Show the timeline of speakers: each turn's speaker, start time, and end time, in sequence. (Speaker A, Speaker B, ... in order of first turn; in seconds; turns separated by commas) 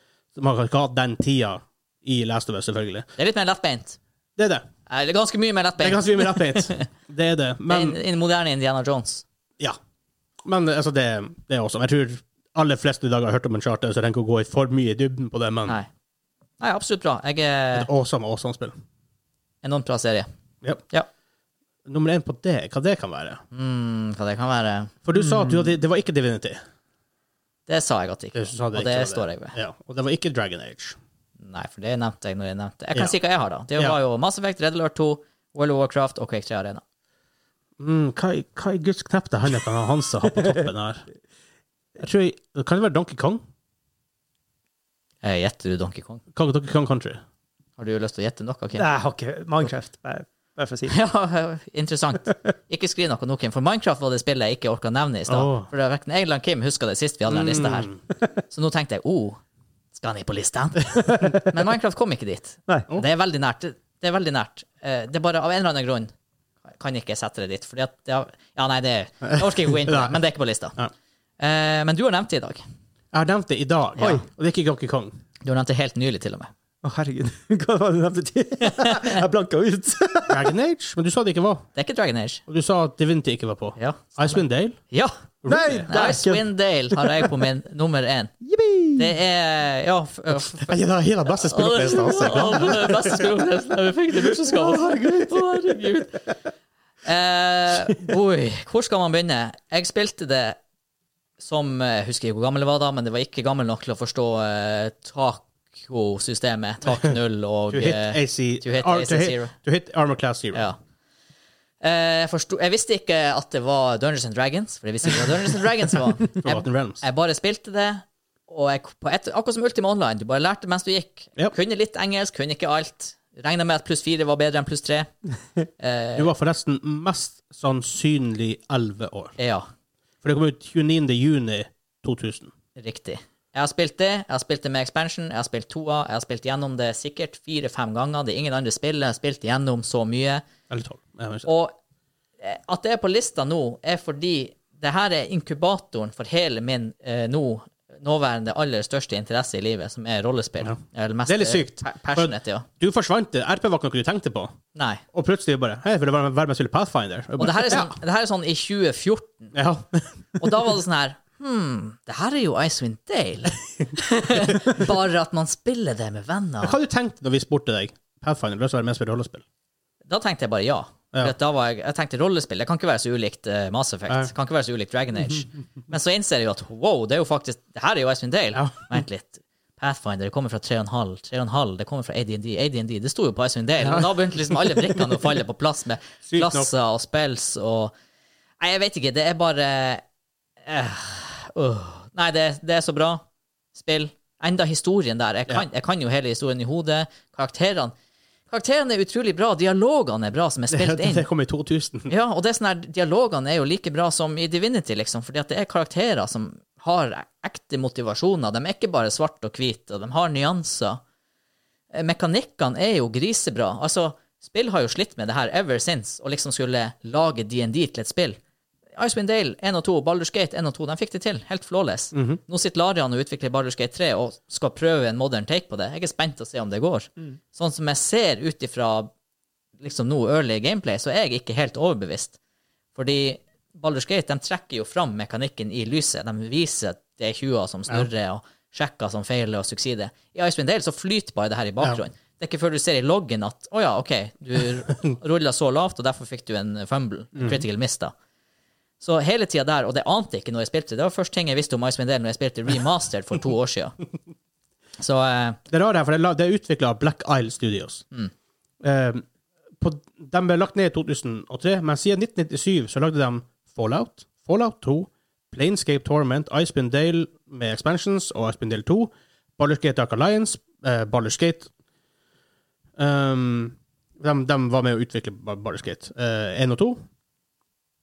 Speaker A: 0.3-3.1, Speaker B: 3.2-4.0, Speaker A: 4.4-4.6, Speaker B: 4.9-6.8, Speaker A: 5.8-8.0, Speaker B: 7.7-9.2, Speaker A: 10.4-15.8, Speaker B: 16.6-17.9, Speaker A: 17.7-18.7, Speaker B: 19.6-20.3, Speaker A: 21.9-23.4, Speaker B: 23.5-24.9, Speaker A: 25.0-26.6, Speaker B: 27.7-29.5, Speaker A: 28.3-31.0, Speaker B: 31.4-36.8, Speaker A: 37.8-41.0, Speaker A: 42.0-43.4, Speaker B: 45.2-46.2, Speaker A: 46.3-47.2, Speaker B: 47.8-48.9, Speaker C: 48.8-50.9, Speaker B: 50.9-57.9, Speaker A: 55.3-55.7, Speaker A: 57.3-58.0, Speaker B: 58.5-59.4, Speaker B: 59.9-66.1, Speaker C: 61.0-61.5, Speaker B: 66.8-70.7, Speaker A: 69.2-70.2, Speaker B: 71.4-72.6, Speaker A: 73.1-75.1, Speaker C: 74.0-74.2, Speaker B: 75.4-76.5, Speaker C: 76.8-80.5, Speaker B: 78.6-79.2, Speaker A: 80.3-81.7, Speaker B: 81.8-82.4, Speaker A: 82.5-84.8, Speaker B: 83.8-85.2, Speaker A: 85.4-85.9, Speaker C: 85.5-87.0, Speaker B: 85.8-88.3, Speaker C: 88.4-89.1, Speaker B: 88.9-90.7, Speaker A: 90.5-93.2, Speaker B: 91.4-96.2, Speaker C: 94.7-95.2, Speaker B: 97.0-100.6, Speaker B: 101.4-109.5, Speaker A: 107.7-110.7, Speaker B: 110.5-110.8, Speaker B: 111.8-125.1, Speaker A: 116.3-117.0, Speaker B: 125.8-126.3, Speaker A: 126.2-129.3, Speaker B: 129.4-129.7, Speaker A: 130.2-132.5, Speaker B: 132.8-140.4, Speaker A: 140.7-141.5, Speaker B: 141.4-141.7, Speaker B: 142.4-152.7, Speaker A: 150.6-154.5, Speaker B: 154.7-155.0, Speaker A: 155.1-157.9, Speaker B: 157.4-159.5, Speaker A: 159.5-160.1, Speaker B: 160.4-166.8, Speaker A: 166.6-169.4, Speaker B: 170.1-187.9, Speaker A: 178.5-179.0, Speaker A: 183.8-185.0, Speaker A: 186.2-186.7, Speaker B: 188.6-190.0, Speaker B: 190.6-193.2, Speaker B: 193.7-197.9, Speaker B: 198.5-201.2, Speaker A: 200.7-202.1, Speaker B: 202.1-211.0, Speaker B: 211.9-218.4, Speaker B: 219.0-229.1, Speaker A: 222.1-222.4, Speaker B: 229.8-232.4, Speaker B: 232.9-248.1, Speaker A: 247.3-247.6, Speaker B: 249.0-253.9, Speaker B: 255.0-255.6, Speaker A: 255.7-258.1, Speaker A: 258.8-259.2, Speaker A: 259.8-271.7, Speaker A: 273.0-277.0